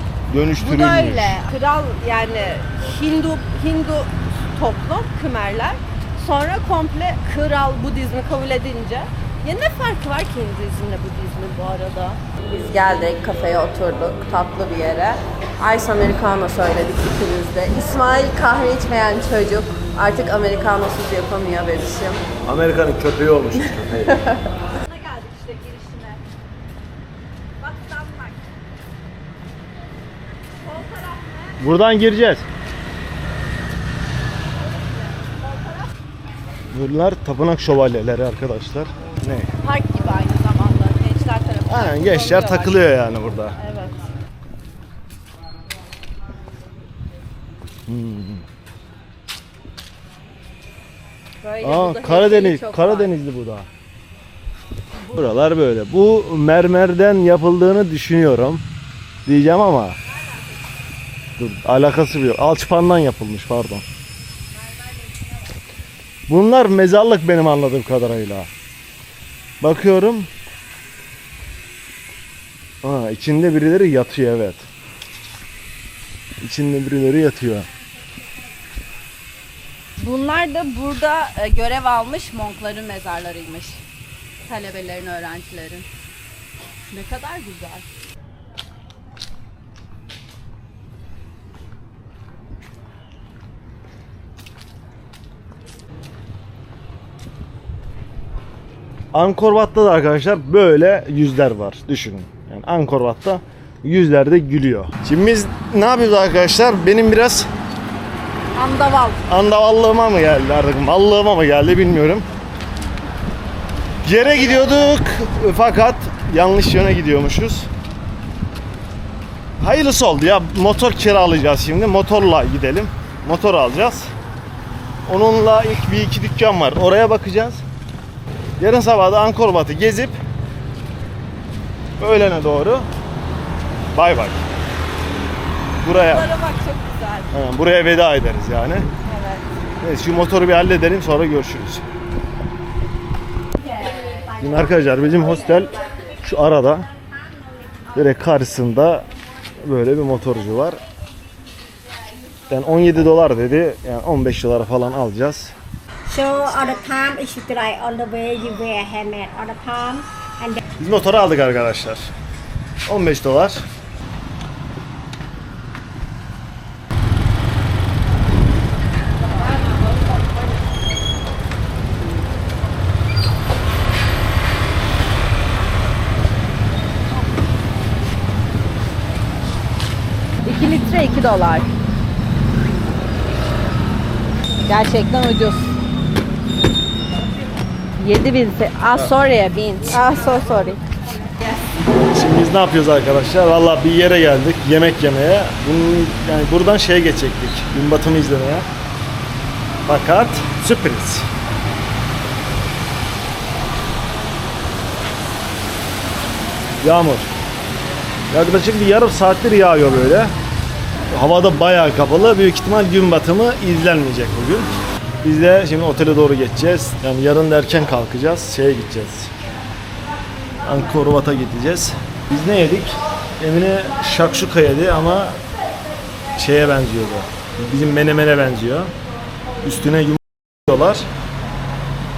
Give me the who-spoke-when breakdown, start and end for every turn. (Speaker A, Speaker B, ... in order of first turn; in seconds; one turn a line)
Speaker A: 0.3-1.4
Speaker B: 0.6-22.2
Speaker A: 22.4-24.3
Speaker B: 24.1-26.2
Speaker B: 27.6-28.4
Speaker B: 30.6-31.6
Speaker A: 31.6-32.5
Speaker B: 34.5-35.9
Speaker A: 36.7-39.5
Speaker B: 39.6-42.8
Speaker A: 41.7-43.5
Speaker B: 43.6-44.0
Speaker A: 47.9-48.5
Speaker B: 51.4-53.1
Speaker A: 51.6-53.7
Speaker A: 55.1-58.6
Speaker A: 59.2-60.0
Speaker A: 61.4-63.8
Speaker A: 66.3-68.5
Speaker A: 69.6-70.3
Speaker A: 72.8-74.7
Speaker A: 76.4-77.7
Speaker B: 80.0-83.8
Speaker B: 84.5-85.9
Speaker B: 86.9-87.8
Speaker A: 99.1-107.5
Speaker B: 108.5-109.2
Speaker A: 109.3-112.2
Speaker A: 114.0-117.7
Speaker A: 119.6-124.1
Speaker A: 125.0-127.6
Speaker A: 128.6-130.2
Speaker A: 132.0-132.9
Speaker A: 133.9-134.5
Speaker A: 135.8-136.3
Speaker B: 135.9-137.3
Speaker A: 137.3-138.9
Speaker B: 139.0-139.4
Speaker A: 139.8-141.8
Speaker B: 143.6-144.3
Speaker C: 143.8-145.3
Speaker A: 144.4-146.9
Speaker A: 147.9-149.1
Speaker A: 149.6-150.8
Speaker A: 152.5-155.5
Speaker C: 156.1-160.6
Speaker A: 160.8-162.1
Speaker A: 162.8-163.7
Speaker B: 169.2-170.3
Speaker B: 180.4-181.7
Speaker B: 184.7-185.7
Speaker B: 188.0-190.8
Speaker A: 192.1-198.7
Speaker A: 199.8-201.3
Speaker A: 206.8-207.3
Speaker A: 208.3-210.3
Speaker A: 211.1-214.7
Speaker A: 215.2-219.3
Speaker A: 220.6-225.4
Speaker A: 226.3-228.9
Speaker A: 229.6-231.1